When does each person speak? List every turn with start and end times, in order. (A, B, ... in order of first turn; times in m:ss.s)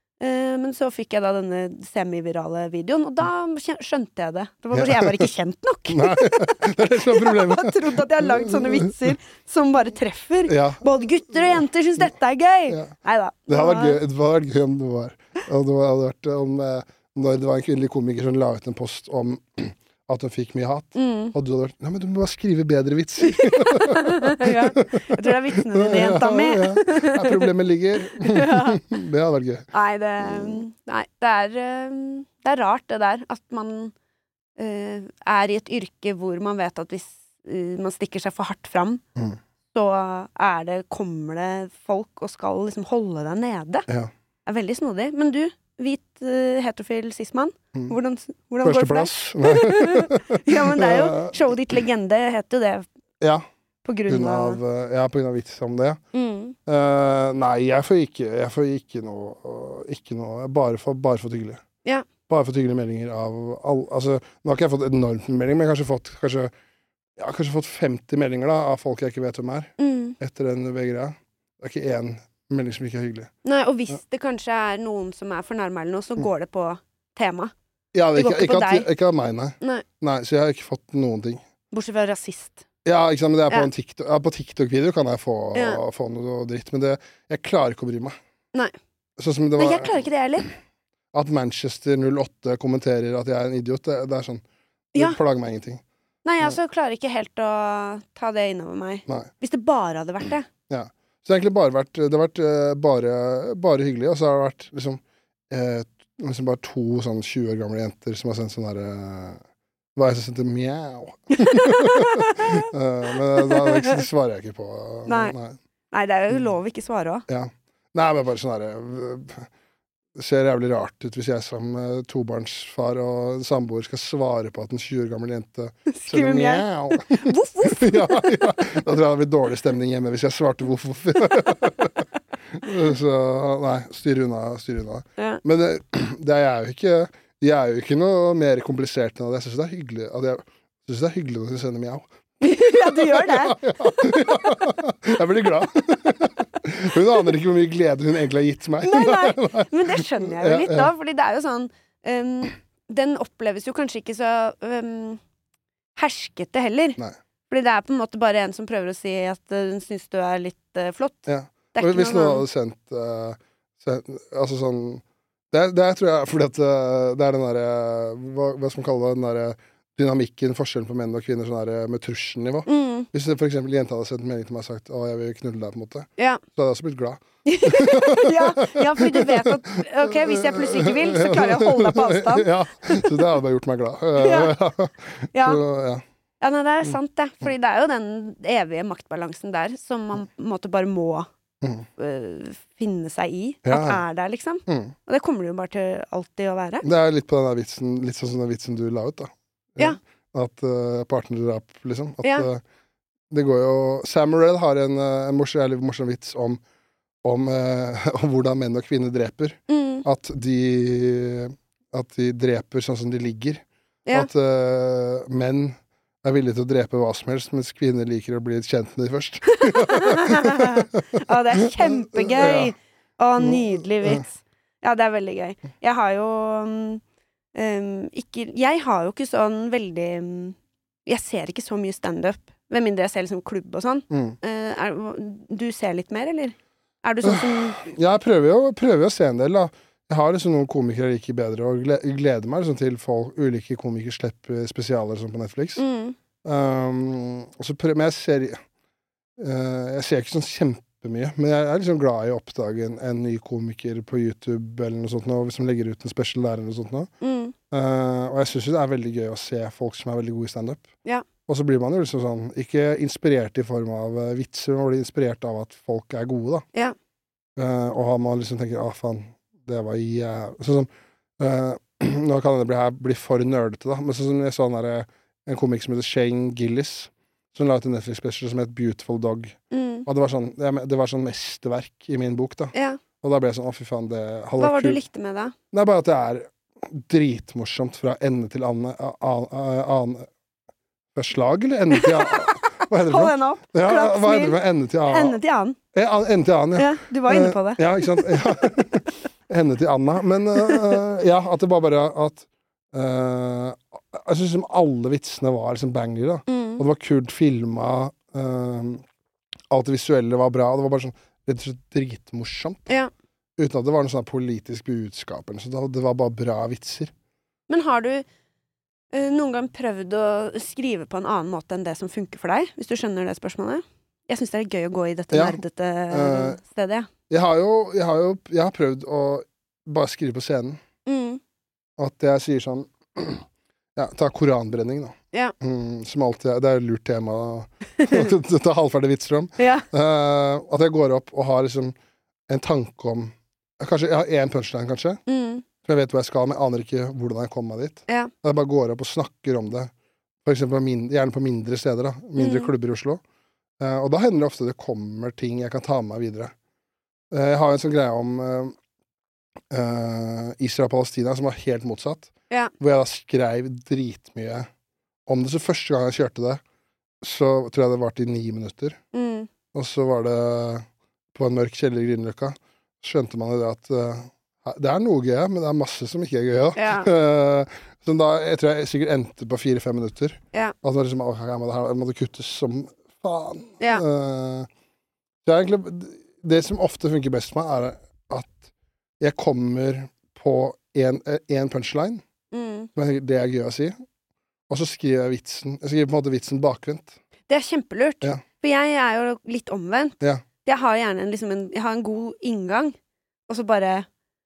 0:00.2-0:14.0 A
0:04.7-0:05.3 B
0:05.9-0:09.1 B
0:10.5-0:10.8 B
0:13.5-0:29.7 B
0:21.0-0:21.3 A
0:23.2-0:27.5 A
0:28.2-0:29.0 A
0:29.7-0:33.9 A
0:30.2-0:30.6 B
0:34.6-0:39.0 A
0:39.7-0:43.9 A
0:44.5-0:52.9 A
0:48.6-0:51.5 B
0:53.8-0:54.6 A
0:54.1-0:56.0 B
0:56.1-0:56.6 A
0:56.7-1:01.6 B
1:02.3-1:06.5 B
1:07.2-1:13.3 B
1:09.8-1:10.2 A
1:13.4-1:17.5 A
1:17.9-1:21.4 B
1:18.2-1:18.9 A
1:21.7-1:22.6 A
1:22.8-1:28.1 B
1:25.5-1:25.8 A
1:29.2-1:30.0 B
1:29.6-1:30.5 A
1:31.1-1:35.8 B
1:36.2-1:40.5 A
1:40.7-1:49.4 B
1:50.0-1:55.6 B
1:51.4-1:52.7 A
1:53.3-1:54.0 A
1:55.1-1:55.4 A
1:55.9-1:57.2 A
1:57.3-1:59.5 B
2:00.2-2:30.9 B
2:05.9-2:08.4 A
2:22.4-2:24.6 A
2:28.8-2:35.2 A
2:36.0-2:42.4 A
2:41.3-3:06.0 B
2:52.7-2:53.1 A
2:56.2-2:56.4 A
2:57.4-3:03.2 A
3:04.2-3:04.6 A
3:05.3-3:05.6 A
3:06.4-3:11.3 A
3:11.6-3:11.9 B
3:12.0-3:16.9 A
3:13.6-3:14.0 B
3:14.7-3:14.9 B
3:16.8-3:22.6 B
3:22.2-3:22.5 A
3:23.3-3:26.6 B
3:27.2-3:42.7 B
3:29.7-3:30.1 A
3:39.5-3:47.0 A
3:43.4-3:44.2 B
3:47.5-3:57.9 A
3:54.1-3:54.4 B
3:57.2-4:05.8 B
4:05.8-4:06.2 A
4:06.4-4:08.6 B
4:09.4-4:17.1 B
4:17.2-4:17.6 A
4:17.7-4:20.9 B
4:21.5-4:26.7 B
4:27.6-4:30.9 B
4:31.4-4:45.0 B
4:39.7-4:40.1 A
4:42.7-4:43.0 A
4:44.6-4:45.5 A
4:45.7-4:50.3 B
4:51.2-4:55.4 B
4:51.9-4:55.8 A
4:55.9-5:09.0 B
4:56.8-4:58.3 A
5:06.5-5:06.8 A
5:09.7-5:12.9 B
5:13.6-5:17.1 B
5:17.7-5:18.3 A
5:19.1-5:27.1 A
5:25.3-5:26.6 B
5:27.3-5:30.8 B
5:31.1-5:31.4 A
5:32.0-5:42.0 B
5:38.0-5:38.3 A
5:39.6-5:39.9 A
5:42.5-5:45.2 B
5:45.3-5:45.6 A
5:45.8-5:49.9 B
5:50.4-5:53.2 B
5:52.4-5:52.7 A
5:53.8-5:56.5 B
5:57.3-5:58.8 B
5:59.7-6:04.7 B
6:05.3-6:06.6 B
6:07.2-6:09.0 B
6:09.1-6:09.5 A
6:09.7-6:24.7 B
6:16.8-6:17.1 A
6:25.4-6:28.7 B
6:29.2-6:32.2 B
6:32.5-6:32.9 A
6:33.0-6:33.9 B
6:34.7-6:37.2 B
6:37.5-6:43.0 A
6:43.5-6:44.1 A